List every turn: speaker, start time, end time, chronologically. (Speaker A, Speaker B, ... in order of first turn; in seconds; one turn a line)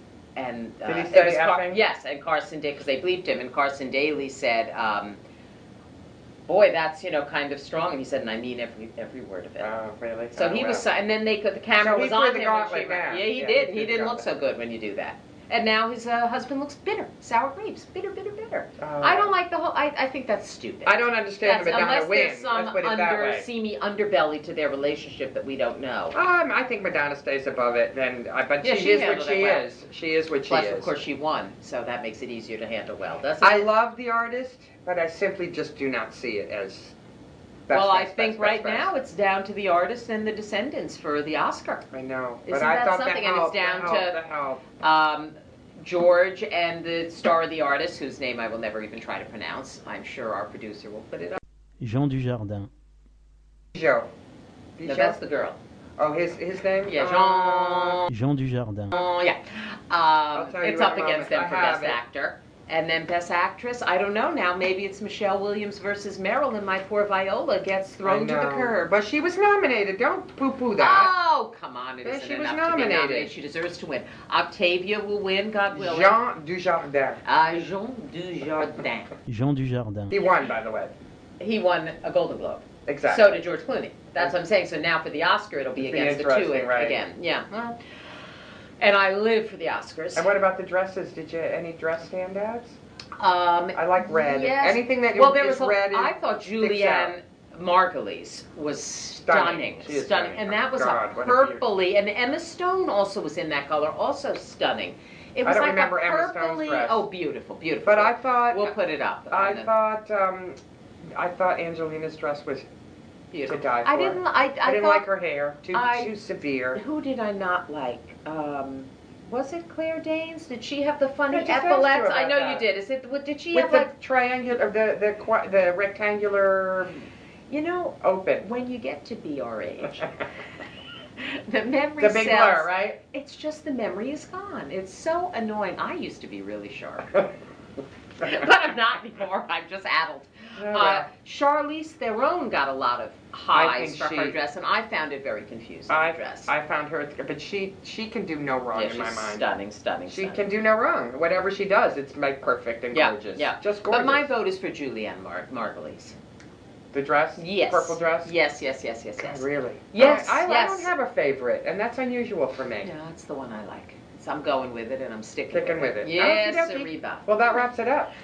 Speaker A: 0.4-5.2
Speaker B: 0.8-1.8
Speaker A: 6.5-9.7
Speaker B: 9.6-10.8
Speaker A: 10.3-26.2
Speaker B: 11.8-14.2
Speaker B: 18.8-19.3
Speaker B: 20.9-23.5
Speaker B: 26.1-30.9
Speaker A: 28.6-29.7
Speaker A: 30.5-33.7
Speaker B: 33.4-37.0
Speaker B: 37.7-38.9
Speaker A: 37.7-41.9
Speaker B: 41.9-44.6
Speaker A: 42.5-44.2
Speaker A: 44.8-51.4
Speaker C: 51.8-52.7
Speaker B: 53.7-54.1
Speaker B: 54.8-55.2
Speaker A: 54.8-55.6
Speaker B: 56.0-58.0
Speaker A: 56.9-58.1
Speaker C: 58.1-58.9
Speaker A: 58.9-68.9
Speaker B: 60.3-62.0
Speaker B: 68.0-71.1
Speaker A: 70.8-76.2
Speaker B: 72.0-73.3
Speaker B: 75.7-77.2
Speaker A: 77.2-79.1
Speaker C: 79.3-80.1
Speaker B: 80.1-80.9
Speaker A: 81.4-87.8
Speaker B: 82.9-83.4
Speaker B: 85.8-87.0
Speaker A: 88.8-90.3
Speaker B: 90.1-92.8
Speaker A: 93.2-109.7
Speaker B: 93.8-97.1
Speaker B: 99.3-101.6
Speaker B: 105.4-107.0
Speaker B: 107.8-108.7
Speaker B: 109.3-110.6
Speaker B: 111.2-112.7
Speaker A: 113.3-115.0
Speaker B: 113.5-116.8
Speaker A: 115.7-116.1
Speaker A: 116.7-123.9
Speaker B: 121.3-122.7
Speaker B: 123.5-127.1
Speaker A: 127.5-130.1
Speaker B: 128.0-128.5
Speaker A: 131.2-137.3
Speaker B: 132.0-133.0
Speaker A: 138.2-146.5
Speaker B: 140.6-141.1
Speaker B: 143.5-144.3
Speaker B: 145.9-149.5
Speaker A: 148.7-150.4
Speaker B: 150.1-154.3
Speaker A: 152.9-156.2
Speaker B: 156.9-158.3
Speaker A: 157.4-160.9
Speaker B: 159.2-162.9
Speaker A: 162.8-167.3
Speaker B: 165.5-168.1